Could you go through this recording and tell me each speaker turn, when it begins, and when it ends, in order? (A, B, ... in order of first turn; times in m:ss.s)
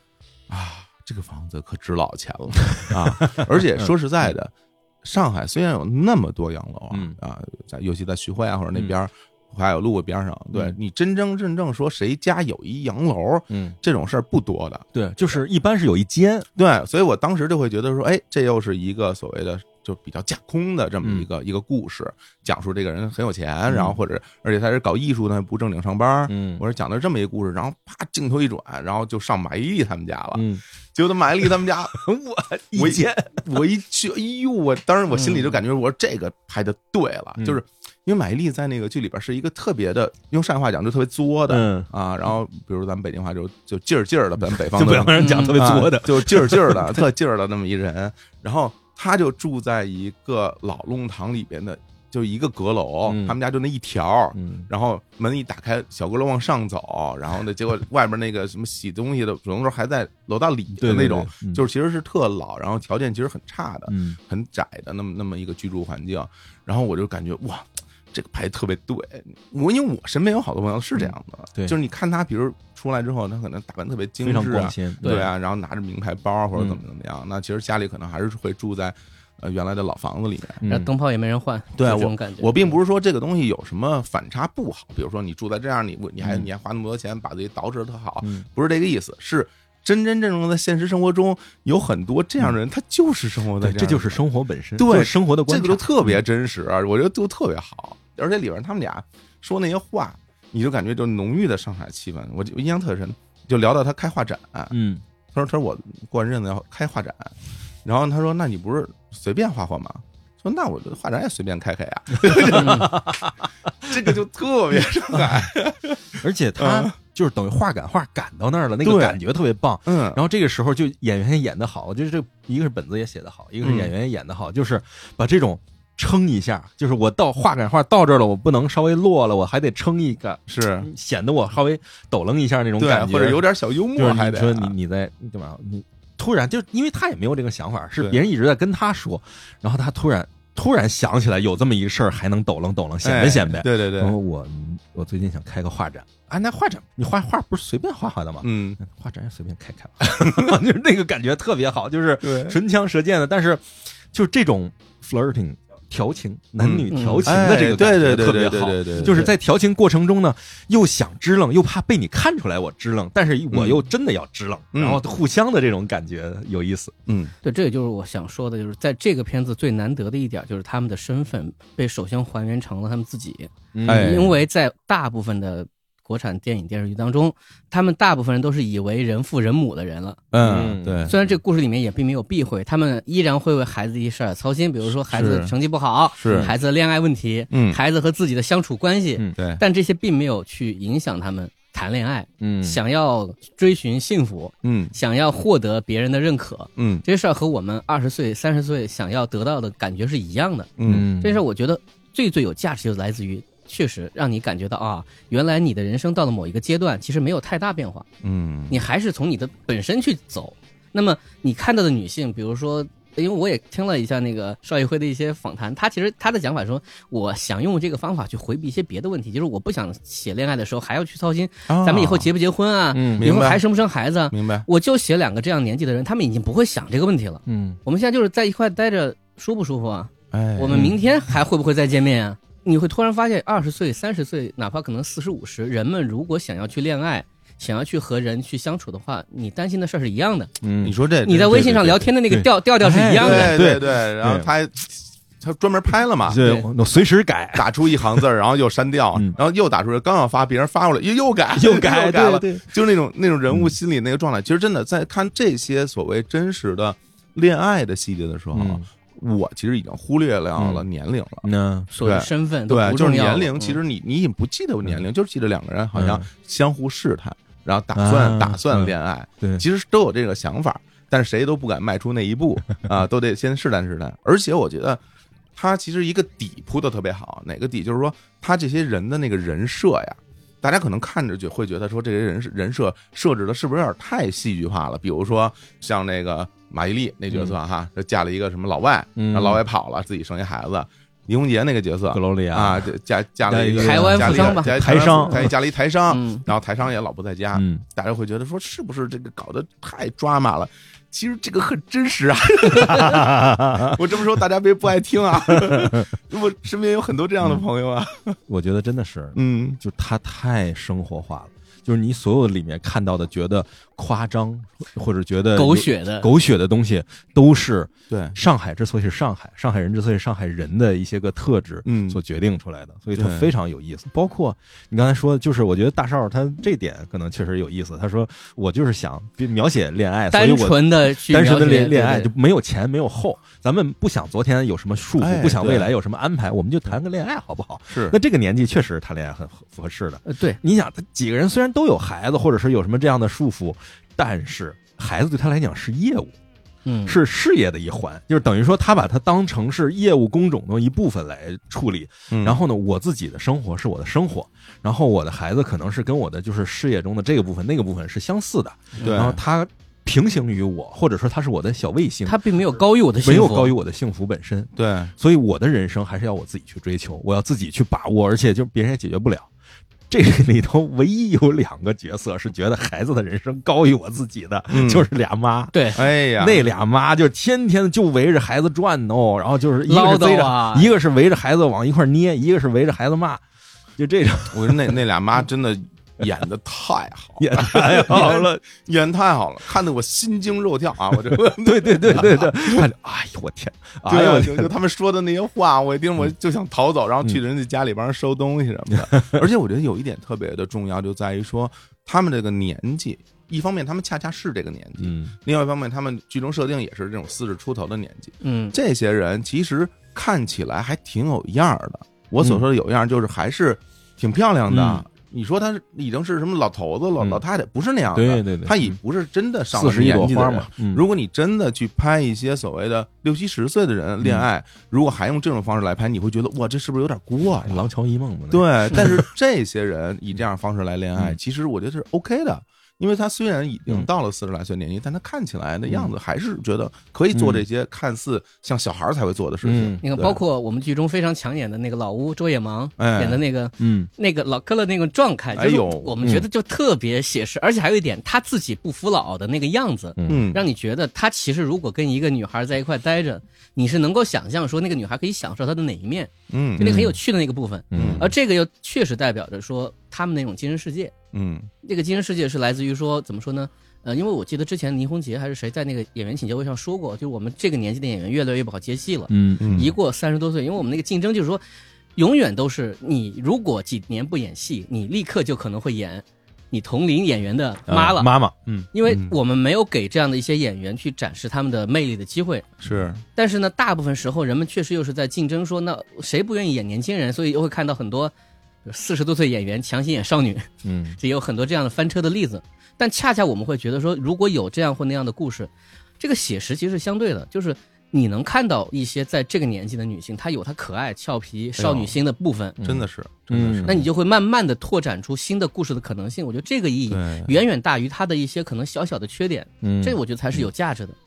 0:00.5-0:14.8 A
0:02.8-0:03.9 B
0:06.9-0:07.2 B
0:13.5-0:13.8 B
0:14.9-0:16.5 B
0:16.6-0:32.0 A
0:21.0-0:21.3 B
0:23.7-0:24.0 B
0:26.3-0:26.6 B
0:30.3-0:30.6 B
0:31.4-0:33.6 B
0:32.7-1:20.6 A
0:35.1-0:35.5 C
0:41.5-0:41.9 B
0:44.5-0:47.0 B
0:45.1-0:45.6 C
0:53.0-0:53.4 B
0:54.3-0:54.7 B
1:00.8-1:01.6 B
1:03.9-1:04.2 B
1:11.0-1:11.7 B
1:14.2-1:15.3 B
1:15.0-1:15.3 C
1:16.5-1:16.8 B
1:20.6-1:20.9 B
1:20.6-1:22.8 C
1:21.8-1:34.2 A
1:26.2-1:26.5 B
1:33.6-1:36.2 B
1:34.8-1:44.7 A
1:44.7-1:45.0 B
1:45.3-1:47.3 A
1:47.8-1:53.2 A
1:52.3-1:53.3 B
1:52.5-1:52.9 C
1:53.8-1:56.9 A
1:55.2-1:55.4 B
1:56.1-2:13.4 B
1:58.8-1:59.2 A
1:59.8-2:00.2 A
2:03.6-2:03.9 A
2:10.5-2:10.9 A
2:12.8-2:14.7 A
2:14.0-2:47.0 B
2:23.0-2:24.2 A
2:28.4-2:28.8 A
2:30.2-2:30.5 A
2:32.2-2:32.6 A
2:36.6-2:39.3 A
2:36.9-2:37.3 C
2:39.0-2:39.3 C
2:43.5-2:43.8 A
2:44.7-2:45.0 A
2:47.1-2:47.3 A
2:47.4-3:00.2 C
2:53.7-2:54.3 B
2:53.8-2:54.3 A
3:00.3-3:01.2 A
3:00.4-3:01.2 B
3:01.0-3:28.0 C
3:05.1-3:05.5 A
3:06.2-3:06.5 A
3:07.5-3:07.8 A
3:09.4-3:09.6 A
3:12.4-3:12.8 B
3:14.6-3:14.9 A
3:16.8-3:17.0 A
3:20.8-3:21.1 A
3:20.9-3:21.4 B
3:28.2-3:28.8 A
3:28.7-4:00.5 C
3:41.7-3:42.3 A
3:42.9-3:43.3 B
3:43.2-3:43.6 A
3:44.3-3:44.7 A
3:47.5-3:47.8 B
3:50.3-3:50.9 A
3:50.7-3:50.9 B
4:00.6-4:04.5 B
4:00.8-4:02.0 A
4:01.2-4:03.7 C
4:03.2-4:06.4 A
4:06.2-4:08.2 B
4:06.4-4:06.6 C
4:07.5-4:21.5 A
4:11.6-4:12.7 B
4:13.5-4:13.7 B
4:18.5-4:18.8 B
4:20.6-4:20.8 B
4:21.4-4:21.9 B
4:21.9-4:23.8 C
4:22.0-4:35.0 A
4:25.9-4:26.3 B
4:27.9-4:29.6 B
4:35.5-5:08.4 A
4:47.3-4:47.6 B
4:49.2-4:49.6 B
4:52.1-4:52.9 B
4:53.4-4:55.5 B
4:53.8-4:55.5 C
4:56.1-4:56.4 C
4:57.5-4:57.8 B
5:02.8-5:04.0 B
5:05.5-5:06.1 B
5:08.5-5:46.3 B
5:09.3-5:09.8 A
5:15.5-5:16.3 C
5:18.1-5:18.4 A
5:21.8-5:22.2 A
5:23.2-5:23.5 A
5:30.3-5:32.3 C
5:35.2-5:35.9 A
5:37.9-5:38.2 A
5:40.2-5:40.6 C
5:46.8-5:47.2 C
5:47.0-6:02.4 B
5:52.3-5:52.6 A
5:59.0-5:59.2 C
5:59.0-5:59.4 A
6:02.2-6:03.7 C
6:03.2-6:09.5 B
6:04.8-6:05.1 A
6:10.1-6:23.4 B
6:14.7-6:15.1 A
6:15.7-6:16.0 C
6:15.9-6:16.6 A
6:19.8-6:20.9 C
6:24.0-6:25.0 B
6:24.5-6:32.9 A
6:27.4-6:28.6 B
6:31.3-6:34.7 B
6:34.0-7:07.8 A
6:39.0-6:39.4 B
6:45.0-6:45.3 B
6:48.4-6:48.8 C
6:54.7-6:55.0 B
6:58.1-6:59.0 B
6:59.7-7:01.0 B
7:04.2-7:04.5 B
7:07.6-7:09.3 B
7:08.5-7:20.4 A
7:15.9-7:16.1 B
7:17.3-7:17.6 B
7:19.6-7:20.0 B
7:20.0-7:41.1 C
7:23.0-7:23.4 A
7:23.8-7:24.1 B
7:25.5-7:26.2 A
7:26.2-7:26.5 B
7:30.2-7:30.5 B
7:30.2-7:30.6 A
7:36.5-7:37.0 A
7:36.8-7:37.2 B
7:37.9-7:38.3 B
7:37.9-7:38.3 A
7:41.3-7:41.7 A
7:41.8-7:51.6 C
7:49.3-7:49.9 B
7:49.6-7:49.9 A
7:52.2-7:58.3 C
7:57.9-7:58.9 B
7:58.9-8:02.7 C
7:59.1-7:59.3 A
8:02.8-8:03.2 A
8:03.4-8:08.3 C
8:08.8-8:22.8 C
8:10.8-8:11.2 B
8:21.8-8:22.1 A
8:22.8-8:24.0 B
8:22.8-8:24.1 A
8:23.8-8:31.2 C
8:27.1-8:27.6 A
8:29.8-8:30.6 B